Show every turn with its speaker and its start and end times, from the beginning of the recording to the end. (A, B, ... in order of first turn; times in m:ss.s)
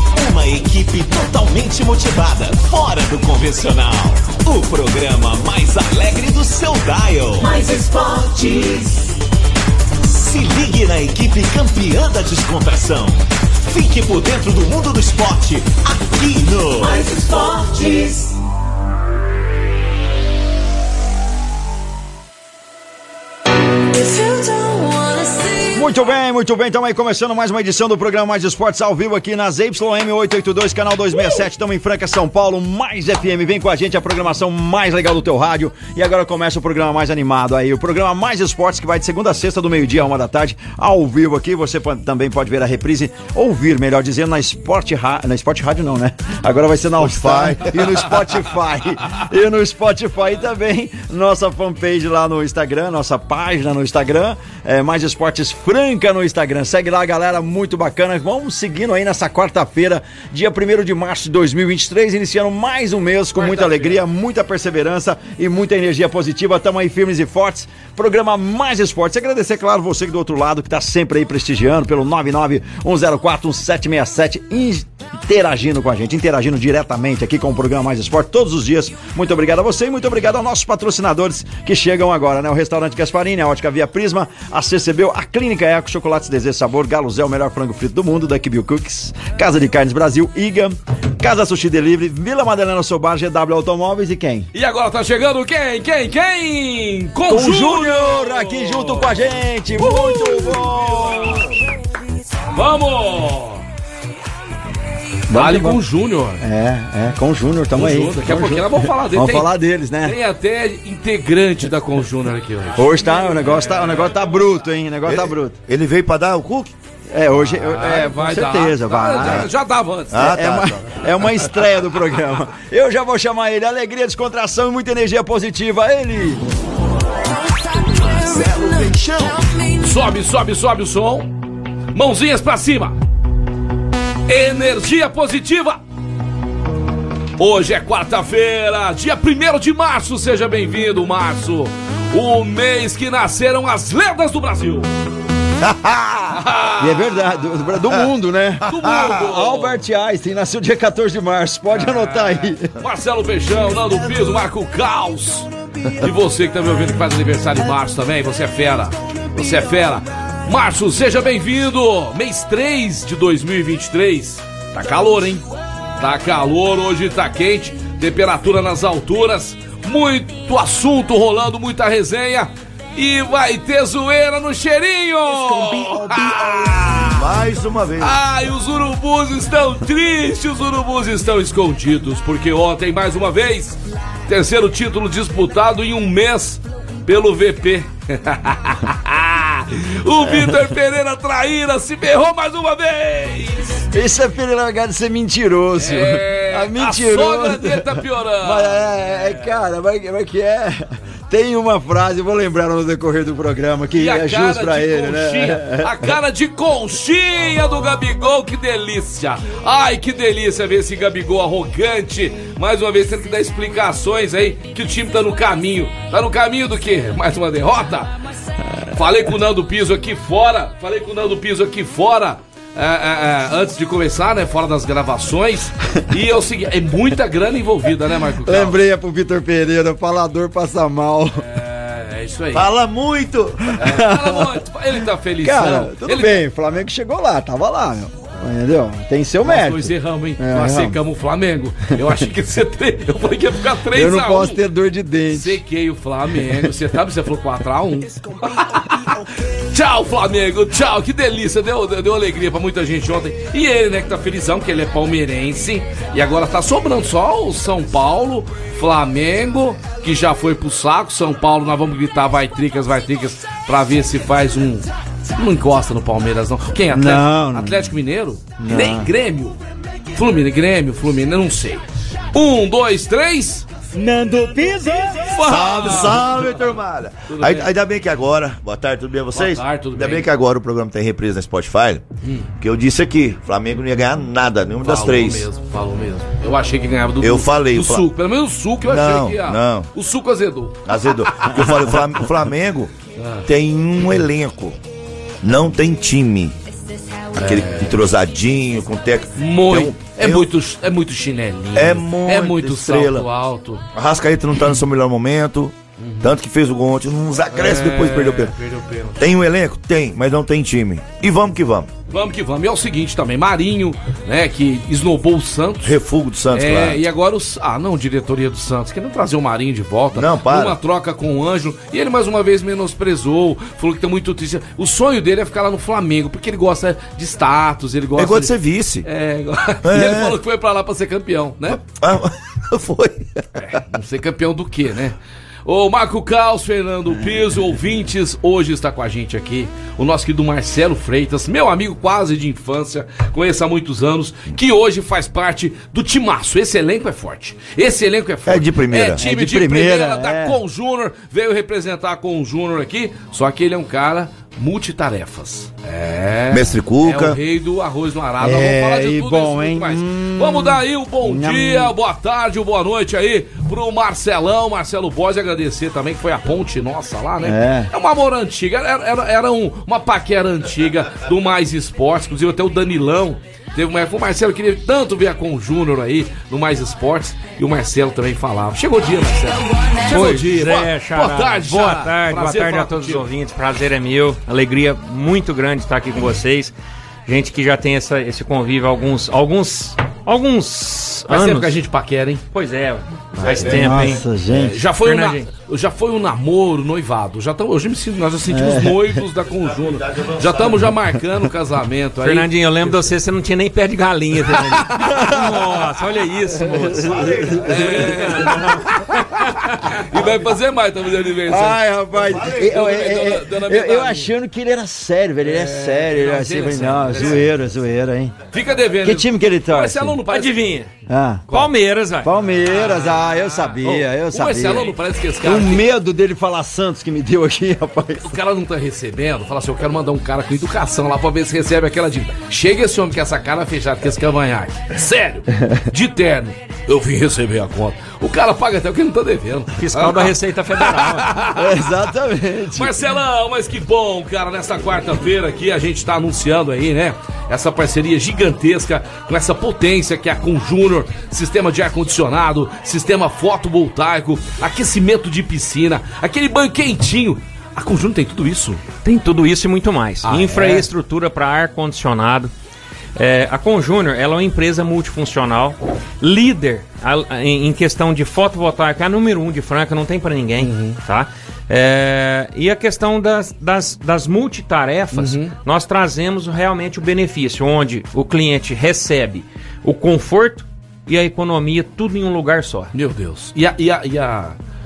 0:00.2-0:07.6 A
0:07.4-0:09.2 B
0:10.0-0:17.1 A
0:16.8-0:18.3 B
0:23.9-0:25.9 B
0:25.7-1:34.5 C
0:47.0-0:48.1 D
1:03.4-1:04.0 E
1:34.5-1:41.4 E
1:37.3-1:41.5 C
1:42.5-1:43.6 E
1:45.3-1:45.8 C
1:45.3-1:46.4 E
1:46.4-1:50.2 C
1:47.8-1:54.4 E
1:52.8-1:55.6 C
1:55.1-1:56.7 D
1:57.1-1:59.5 C
1:57.5-2:00.4 E
2:00.1-2:00.9 D
2:00.2-2:06.4 C
2:07.3-2:09.9 B
2:08.3-2:09.4 A
2:09.8-2:11.3 E
2:11.9-2:13.0 E
2:14.3-2:15.8 E
2:17.4-2:24.9 E
2:25.6-2:26.4 D
2:26.3-2:27.5 E
2:26.8-2:32.7 C
2:28.7-2:29.8 E
2:31.7-2:35.5 E
2:36.0-2:45.5 E
2:46.0-2:57.3 E
2:56.1-2:58.2 D
2:58.0-3:13.8 E
3:13.9-3:26.1 C
3:15.8-3:19.5 E
3:24.0-3:38.2 E
3:38.9-3:48.8 E
3:48.4-3:51.4 C
3:51.4-3:52.7 E
3:52.5-3:53.7 D
3:53.8-3:56.5 E
3:53.8-3:54.6 C
3:55.4-4:01.0 C
3:59.4-4:04.6 E
4:03.9-4:05.6 C
4:05.3-4:09.2 E
4:09.7-4:29.6 E
4:26.9-4:27.9 C
4:28.6-4:29.1 C
4:30.1-4:33.7 E
4:34.0-4:35.3 C
4:35.2-4:36.4 E
4:35.4-4:42.0 D
4:37.3-4:37.7 E
4:39.4-4:40.3 E
4:42.6-4:45.5 D
4:44.8-4:51.9 E
4:47.2-4:48.1 D
4:48.8-4:49.9 D
4:50.8-4:52.9 D
4:53.2-4:53.5 E
4:53.4-4:54.8 D
4:55.4-4:56.6 D
4:57.4-5:00.5 D
4:57.4-4:58.0 E
4:59.4-5:03.8 E
5:01.7-5:03.3 D
5:03.9-5:08.5 D
5:06.0-5:06.3 E
5:07.5-5:09.2 E
5:09.2-5:11.9 D
5:12.1-5:15.9 E
5:15.8-5:17.0 D
5:16.5-5:28.5 E
5:20.1-5:20.8 D
5:28.2-5:29.1 D
5:29.0-5:31.8 E
5:29.8-5:30.4 D
5:31.8-5:33.4 D
5:33.7-6:23.2 E
5:48.5-5:49.2 D
5:49.2-5:50.6 C
5:56.5-5:57.4 D
5:58.4-6:01.9 C
6:07.4-6:07.9 C
6:20.1-6:26.7 F
6:27.3-6:31.7 F
6:31.3-6:32.4 E
6:32.5-6:34.2 F
6:33.4-6:33.8 E
6:33.7-6:34.8 C
6:34.5-6:43.2 E
6:35.0-6:35.5 F
6:38.5-6:39.2 C
6:39.7-6:40.9 D
6:42.2-6:47.2 F
6:46.8-6:47.9 C
6:47.0-6:48.3 D
6:47.6-6:49.0 E
6:50.0-6:51.8 E
6:51.5-6:58.4 C
6:52.3-6:52.7 D
6:52.5-6:54.3 E
6:55.4-6:57.5 E
6:58.5-7:00.7 E
6:59.0-7:00.2 C
7:00.3-7:00.9 F
7:01.1-7:01.5 C
7:01.5-7:02.3 F
7:02.2-7:08.3 C
7:02.7-7:05.9 E
7:08.2-7:22.1 E
7:19.8-7:21.3 F
7:21.6-7:23.0 C
7:22.7-7:38.9 E
7:39.0-7:42.5 F
7:40.2-7:40.9 E
7:43.2-8:02.9 F
7:50.6-7:51.0 E
7:55.1-7:55.5 E
8:02.9-8:04.6 E